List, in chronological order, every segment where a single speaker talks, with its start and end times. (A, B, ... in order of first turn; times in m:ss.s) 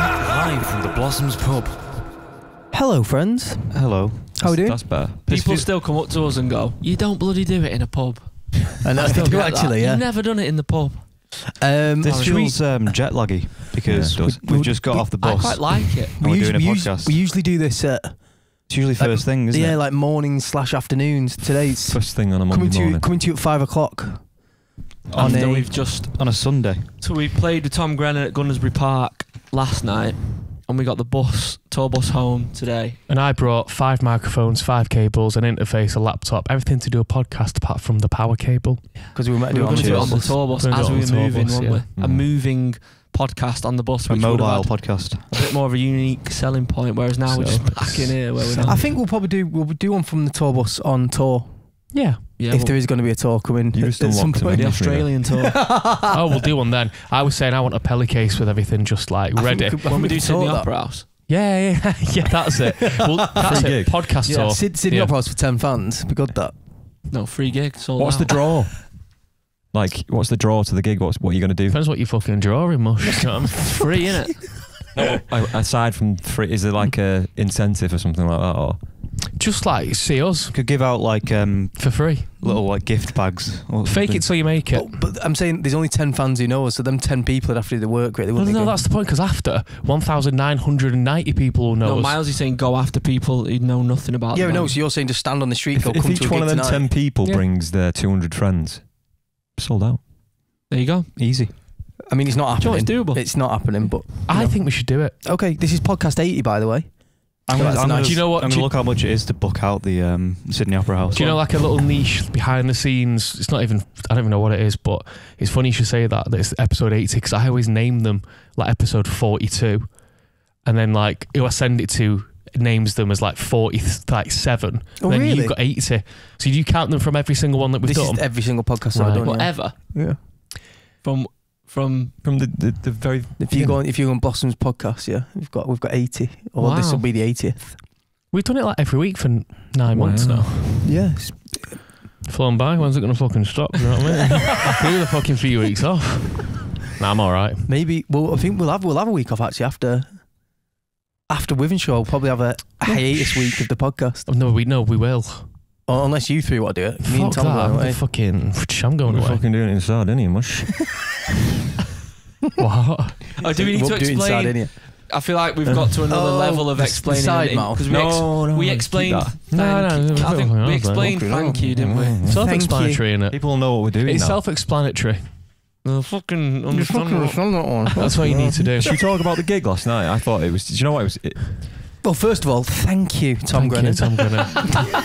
0:02.7-0:05.0 A
0:03.7-0:04.5 B
0:04.4-0:05.2 C
0:05.2-0:05.7 B
0:05.2-0:12.9 D
0:08.8-0:10.1 A
0:11.3-0:12.4 A
0:12.0-0:17.2 B
0:13.8-0:14.6 C
0:14.2-0:24.5 A
0:15.2-0:16.1 D
0:18.7-0:19.8 B
0:21.9-0:23.1 C
0:25.1-0:26.9 B
0:25.2-0:25.7 A
0:25.2-0:33.0 D
0:33.1-0:39.3 E
0:39.0-0:49.0 D
0:39.1-0:40.4 A
0:39.7-0:40.2 C
0:39.9-0:41.8 E
0:42.0-0:42.3 C
0:44.1-0:45.4 B
0:47.3-0:48.9 E
0:48.6-0:56.2 A
0:51.9-0:52.2 E
0:52.4-0:52.8 D
0:53.7-0:55.2 C
0:54.5-0:55.7 D
0:56.1-0:59.8 E
0:59.3-1:00.7 A
0:59.8-1:01.1 D
1:01.3-1:05.2 E
1:03.4-1:06.7 A
1:03.4-1:04.2 C
1:07.1-1:08.6 D
1:08.0-1:09.2 C
1:09.7-1:12.0 C
1:11.7-1:13.6 E
1:13.5-1:15.2 A
1:13.7-1:14.8 D
1:14.9-1:19.0 C
1:19.3-1:20.6 E
1:20.5-1:24.5 B
1:21.8-1:22.6 E
1:23.8-1:24.9 E
1:24.7-1:28.8 A
1:28.3-1:32.2 E
1:31.8-1:34.8 D
1:34.3-1:37.0 A
1:35.7-1:40.1 C
1:37.2-1:37.5 E
1:40.7-1:41.6 D
1:41.2-1:41.5 B
1:42.0-1:48.2 A
1:42.6-1:43.5 D
1:44.2-1:45.2 E
1:47.4-1:51.6 B
1:47.9-1:48.8 E
1:51.1-2:09.5 E
2:05.0-2:05.6 A
2:07.8-2:10.2 A
2:09.2-2:12.2 D
2:12.2-2:13.8 C
2:13.4-2:17.8 A
2:16.6-2:17.1 D
2:18.3-2:20.6 E
2:19.9-2:21.0 C
2:20.8-2:21.8 A
2:22.2-2:27.7 E
2:27.6-2:30.6 A
2:31.3-2:34.3 A
2:32.8-2:35.8 E
2:35.8-2:38.0 A
2:37.0-2:39.4 E
2:39.0-2:40.8 C
2:42.6-2:43.2 E
2:43.4-2:44.7 A
2:43.4-2:52.2 D
2:46.1-2:48.0 A
2:47.9-2:49.4 C
2:49.5-2:51.2 E
2:50.9-2:53.1 A
2:51.7-2:52.7 C
2:52.2-2:55.3 E
2:53.2-2:54.4 C
2:55.8-2:57.8 D
2:56.7-2:58.8 A
2:58.0-2:59.0 E
2:58.0-3:01.8 C
3:02.0-3:04.3 A
3:03.5-3:04.8 E